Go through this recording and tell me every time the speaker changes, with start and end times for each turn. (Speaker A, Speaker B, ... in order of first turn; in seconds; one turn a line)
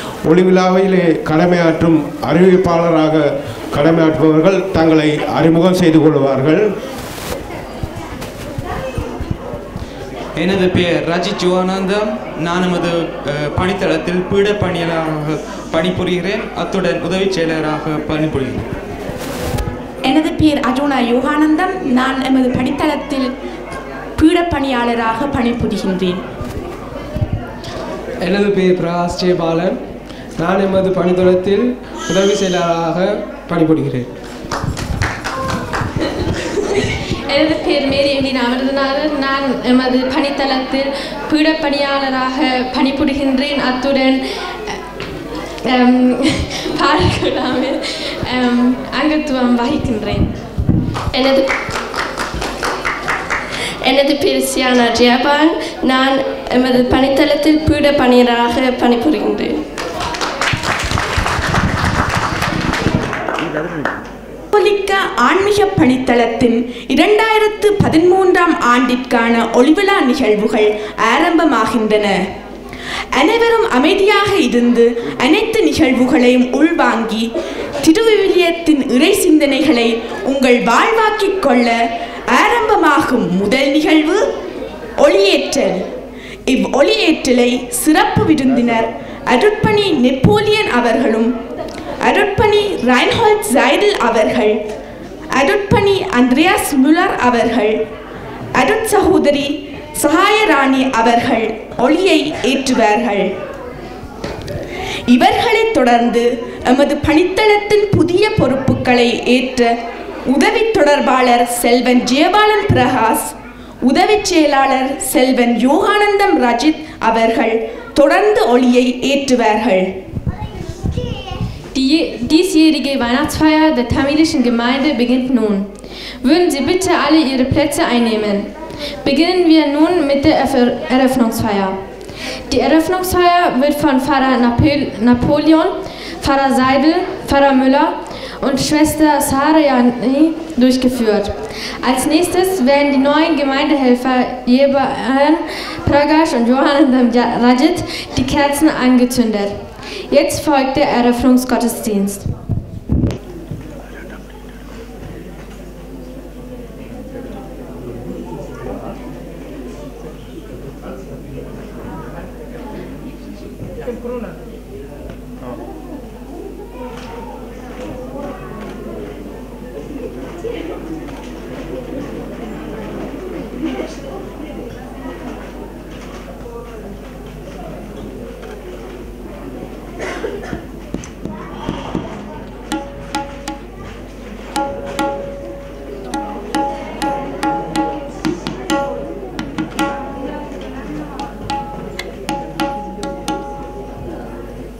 Speaker A: 0.2-6.6
Speaker B: 10.4-18.7
Speaker C: 20.1-23.3
Speaker C: 24.2-26.2
Speaker D: 28.2-29.8
Speaker D: 30.4-34.1
Speaker E: 37.2-44.8
Speaker E: 45.6-50.3
Speaker F: 51.1-51.5
Speaker F: 53.8-59.5
Speaker C: 64.5-72.2
Speaker C: 73.2-77.3
Speaker C: 77.8-84.2
Speaker C: 85.0-85.8
Speaker C: 86.5-91.3
Speaker C: 92.0-94.6
Speaker C: 95.3-97.8
Speaker C: 98.5-103.3
Speaker C: 105.1-109.7
Speaker C: 110.3-113.3
Speaker C: 113.8-119.9
Speaker E: 121.7-125.7
Speaker E: 126.2-128.5
Speaker E: 129.0-131.8
Speaker E: 132.5-149.6
Speaker E: 150.1-152.3